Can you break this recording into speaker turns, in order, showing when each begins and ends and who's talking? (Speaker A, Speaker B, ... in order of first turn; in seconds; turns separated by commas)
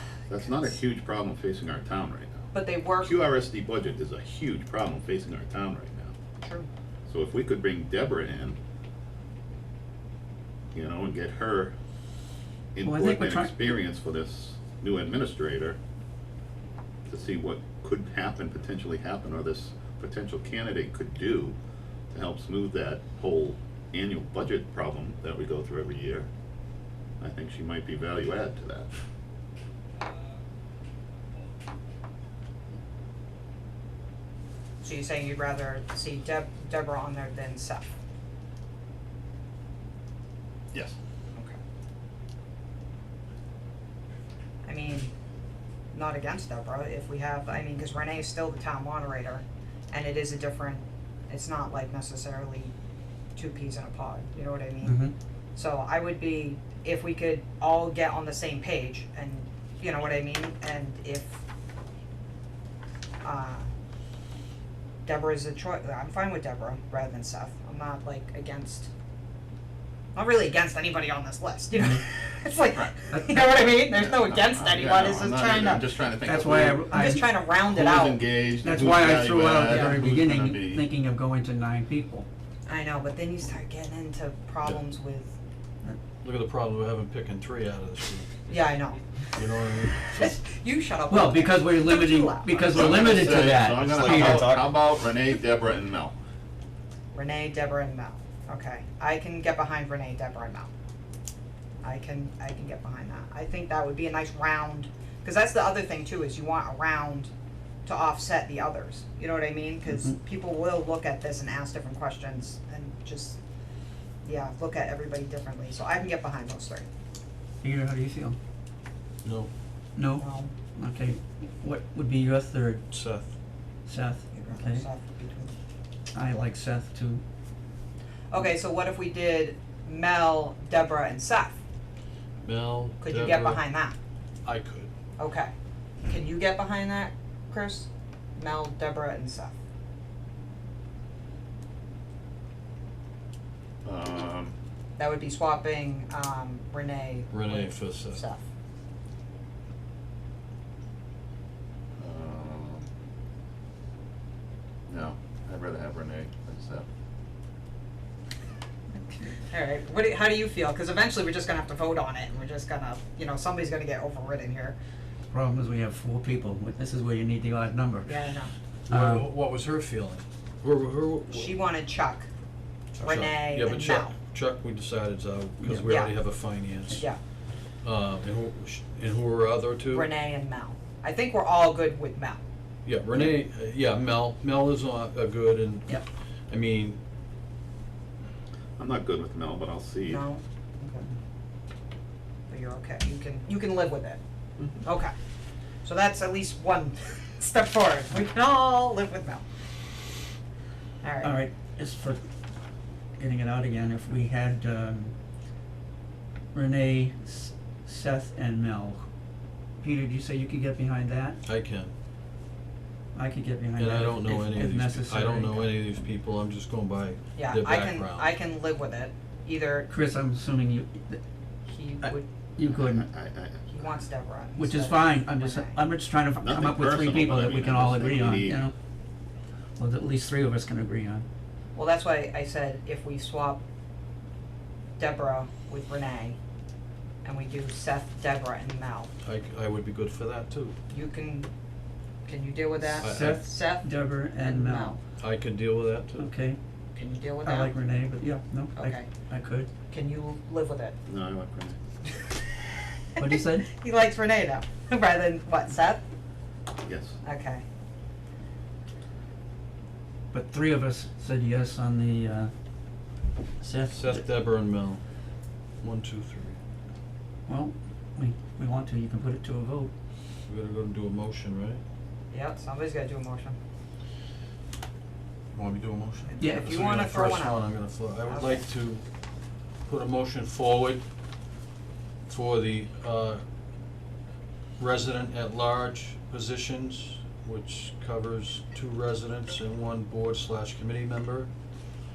Speaker A: 0.3-2.5, Speaker B: 2.5-3.2, Speaker A: 3.0-6.2, Speaker B: 6.4-6.7, Speaker A: 7.1-8.6, Speaker A: 10.7-11.7, Speaker A: 12.8-15.8, Speaker C: 12.8-13.6, Speaker A: 17.1-21.6, Speaker A: 22.1-26.3, Speaker A: 27.2-28.9, Speaker B: 34.8-37.9, Speaker B: 44.6-45.1, Speaker B: 45.9-52.7, Speaker B: 53.4-55.0, Speaker C: 54.8-55.1, Speaker B: 55.5-61.4, Speaker B: 63.2-63.7, Speaker B: 65.0-68.9, Speaker B: 70.2-75.9, Speaker C: 73.1-73.4, Speaker A: 74.0-77.1, Speaker C: 76.2-77.3, Speaker B: 76.9-78.2, Speaker A: 77.7-80.8, Speaker C: 78.6-82.3, Speaker B: 79.7-80.0, Speaker B: 82.7-85.3, Speaker D: 86.2-88.4, Speaker B: 88.5-89.0, Speaker D: 89.3-90.3, Speaker B: 90.0-93.2, Speaker C: 91.1-94.8, Speaker A: 92.7-96.2, Speaker B: 97.1-100.7, Speaker B: 101.8-107.3, Speaker B: 107.8-113.4, Speaker B: 114.2-116.9, Speaker C: 117.6-118.4, Speaker D: 119.2-119.5, Speaker C: 120.0-120.2, Speaker B: 120.2-120.5, Speaker C: 120.8-122.8, Speaker D: 122.9-123.3, Speaker C: 123.9-124.8, Speaker B: 124.3-125.6, Speaker C: 126.1-127.2, Speaker B: 128.3-131.6, Speaker D: 132.4-133.6, Speaker B: 133.0-134.0, Speaker D: 134.4-134.9, Speaker B: 135.2-135.5, Speaker B: 136.0-139.5, Speaker A: 143.8-144.6, Speaker B: 145.0-148.4, Speaker D: 147.3-148.2, Speaker A: 152.0-152.9, Speaker A: 154.9-156.9, Speaker B: 159.5-164.8, Speaker C: 165.3-168.2, Speaker B: 168.1-168.5, Speaker C: 168.9-169.2, Speaker D: 168.9-171.5, Speaker B: 171.3-172.3, Speaker D: 173.0-177.0, Speaker B: 173.0-174.2, Speaker C: 175.6-175.9, Speaker B: 175.8-176.2, Speaker B: 176.8-177.2, Speaker D: 177.8-180.1, Speaker B: 179.9-182.4, Speaker D: 182.8-186.0, Speaker D: 186.5-187.0, Speaker A: 188.8-190.2, Speaker B: 190.1-191.1, Speaker B: 192.5-194.2, Speaker B: 194.8-195.1, Speaker B: 195.8-199.4, Speaker B: 201.0-201.3, Speaker C: 201.2-202.2, Speaker C: 203.2-205.1, Speaker C: 206.5-209.1, Speaker C: 209.8-211.4, Speaker D: 211.5-211.9, Speaker C: 213.2-215.8, Speaker D: 213.8-218.3, Speaker B: 217.3-219.9, Speaker C: 219.9-221.2, Speaker B: 221.7-222.3, Speaker C: 222.6-223.1, Speaker A: 222.7-223.7, Speaker B: 223.7-225.8, Speaker C: 224.6-228.7, Speaker A: 226.4-228.6, Speaker C: 229.8-231.2, Speaker B: 231.8-233.6, Speaker B: 235.0-236.4, Speaker B: 237.2-239.1, Speaker D: 239.2-240.8, Speaker B: 240.9-241.5, Speaker B: 242.2-245.0, Speaker D: 243.0-243.4, Speaker C: 243.0-245.0, Speaker D: 245.2-246.3, Speaker C: 246.2-246.6, Speaker B: 246.9-247.8, Speaker C: 247.4-249.7, Speaker B: 248.8-249.1, Speaker B: 249.9-251.0, Speaker A: 251.1-251.8, Speaker C: 253.2-253.7, Speaker B: 253.2-256.0, Speaker A: 256.8-257.2, Speaker B: 257.2-257.6, Speaker C: 260.3-262.5, Speaker C: 263.6-264.2, Speaker D: 263.9-265.0, Speaker D: 265.8-266.6, Speaker C: 267.5-269.9, Speaker D: 270.5-271.8, Speaker B: 272.3-273.6, Speaker D: 275.5-279.1, Speaker B: 276.4-277.6, Speaker C: 276.4-276.8, Speaker B: 278.2-278.6, Speaker D: 279.9-281.0, Speaker D: 282.3-283.4, Speaker D: 284.8-291.5